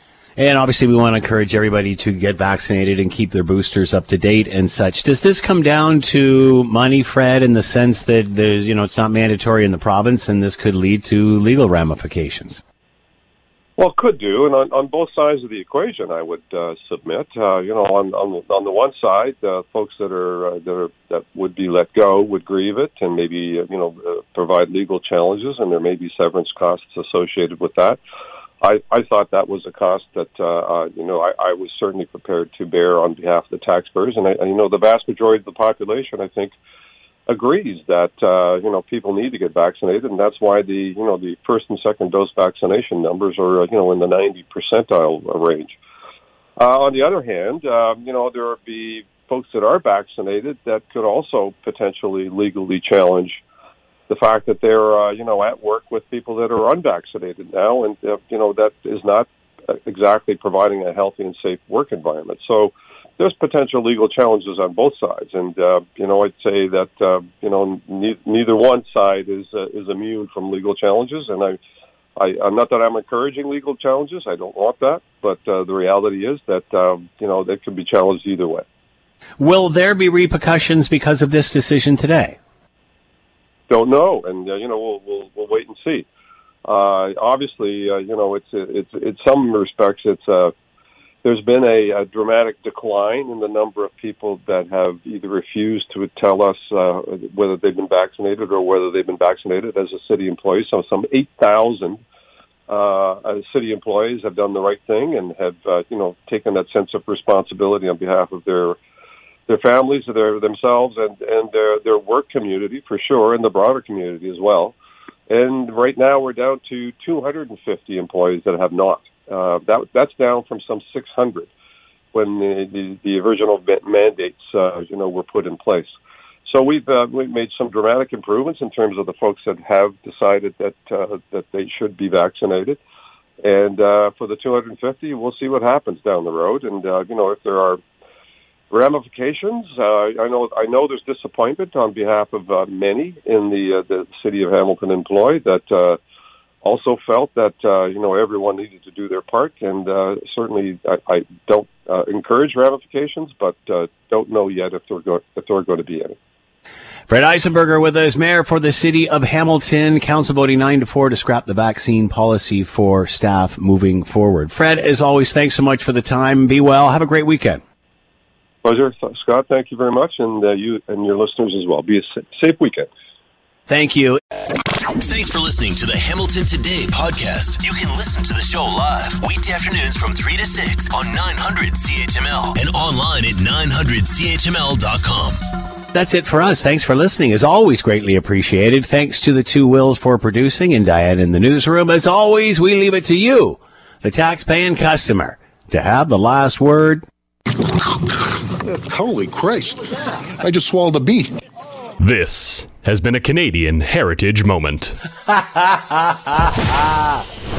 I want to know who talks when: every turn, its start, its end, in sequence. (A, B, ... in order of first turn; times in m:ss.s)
0:00.4-0:12.6 A
0:13.8-0:28.0 B
0:28.6-0:36.5 B
0:37.3-0:45.8 B
0:46.6-0:53.4 B
0:54.1-1:11.6 B
1:12.2-1:18.6 B
1:19.4-1:22.4 A
1:23.7-1:26.0 B
1:26.6-1:30.5 B
1:31.2-1:42.0 B
1:42.7-1:48.8 B
1:49.5-1:54.8 B
1:55.3-2:01.5 B
2:02.1-2:05.9 B
2:06.4-2:12.8 B
2:13.4-2:17.8 B
2:18.7-2:26.0 B
2:26.6-2:36.2 B
2:37.1-2:47.6 A
2:48.6-2:52.9 B
2:53.7-2:54.2 A
2:55.0-3:05.4 C
3:05.9-3:17.0 A
3:18.8-3:21.3 D
3:22.0-3:25.0 E
3:25.2-3:27.2 A